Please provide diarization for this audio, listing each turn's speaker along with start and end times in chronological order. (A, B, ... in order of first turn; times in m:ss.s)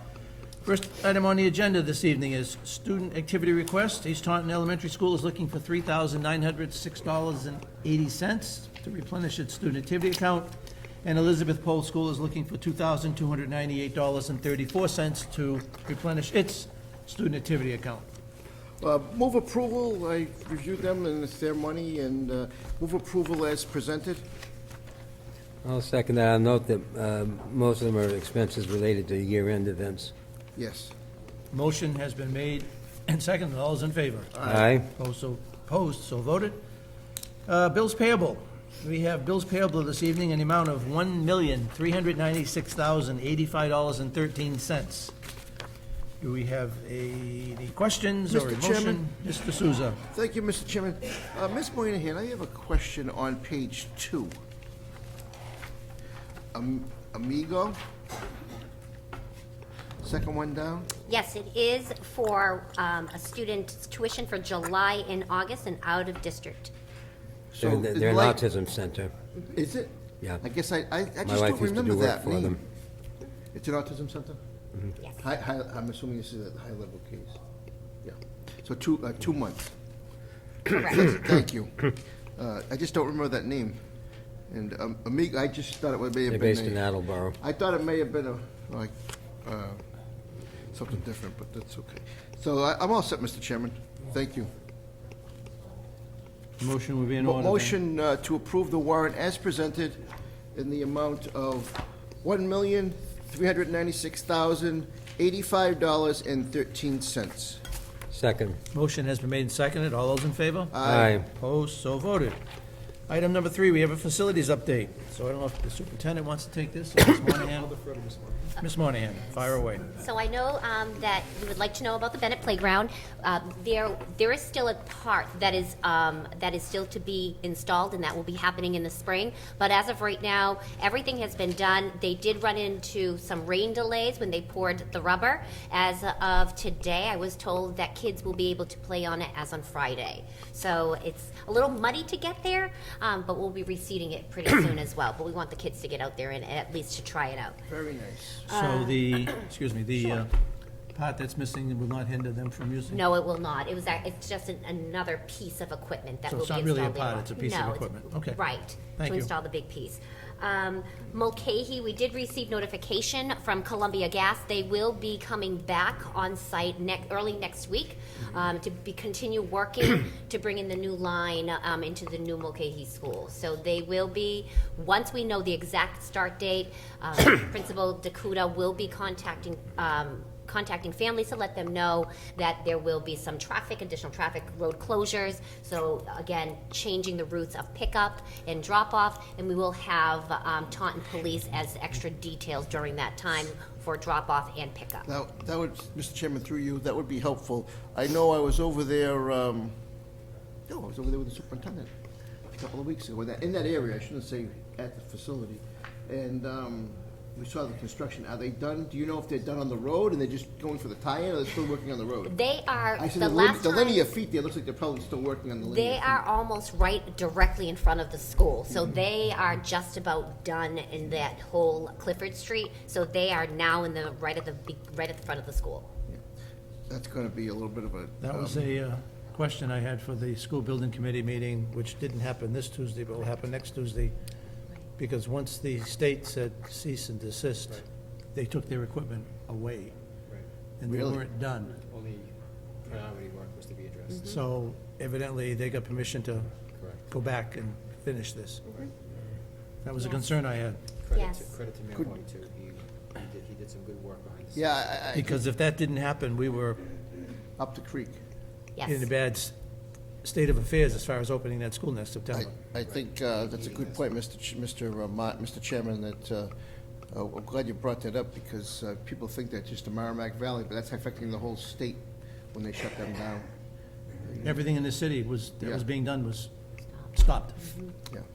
0:00.6-0:10.5 A
0:11.0-0:18.1 A
0:18.8-0:24.2 B
0:25.6-0:30.1 C
0:30.5-0:30.9 B
0:31.5-0:36.6 A
0:34.4-0:34.6 B
0:34.4-0:34.9 C
0:37.5-0:45.1 A
0:46.2-0:50.0 A
0:48.3-0:49.0 B
0:50.1-0:54.3 B
0:56.5-0:57.8 B
1:00.0-1:00.9 B
1:01.1-1:06.7 D
1:07.6-1:08.4 B
1:07.6-1:09.1 C
1:09.5-1:12.6 B
1:11.2-1:12.6 C
1:13.5-1:14.4 B
1:15.2-1:17.4 B
1:18.0-1:19.7 B
1:20.7-1:21.0 D
1:20.8-1:23.8 B
1:24.5-1:26.8 B
1:26.3-1:27.4 C
1:27.4-1:29.8 B
1:30.7-1:34.5 B
1:36.6-1:37.8 A
1:37.2-1:40.0 B
1:40.5-1:47.6 B
1:48.1-1:48.6 C
1:48.7-1:52.4 A
1:50.7-1:51.1 B
1:50.8-1:51.2 C
1:53.1-1:57.8 A
1:57.8-1:58.4 E
1:58.6-1:59.9 A
2:00.0-2:27.6 D
2:27.7-2:28.4 B
2:28.5-2:30.3 A
2:28.5-2:29.2 D
2:30.9-2:33.0 A
2:32.9-3:15.1 D
2:36.3-2:38.4 A
2:39.0-2:39.3 A
3:15.1-3:19.7 B
3:20.7-3:21.9 B
3:22.5-3:32.3 B
3:32.2-3:34.0 D
3:33.0-3:36.2 B
3:35.6-3:45.9 D
3:46.9-3:48.7 B
3:48.2-3:54.1 A
3:55.0-3:59.9 A
4:00.8-4:01.8 A
4:00.8-4:01.2 B
4:01.8-4:02.3 E
4:02.8-4:04.4 E
4:04.1-4:04.4 D
4:04.3-4:06.5 A
4:06.7-4:07.1 E
4:07.1-4:08.6 A
4:09.8-4:10.8 A
4:11.0-4:15.2 E
4:11.1-4:11.5 D
4:14.5-4:15.4 B
4:15.1-4:16.8 A
4:17.6-4:18.2 B
4:18.8-4:19.1 D
4:18.8-4:19.5 A
4:20.2-4:22.5 A
4:22.3-4:26.5 B
4:22.8-4:24.0 E
4:27.1-4:33.4 B
4:34.4-4:36.5 A
4:37.1-4:37.7 A
4:37.6-4:37.9 D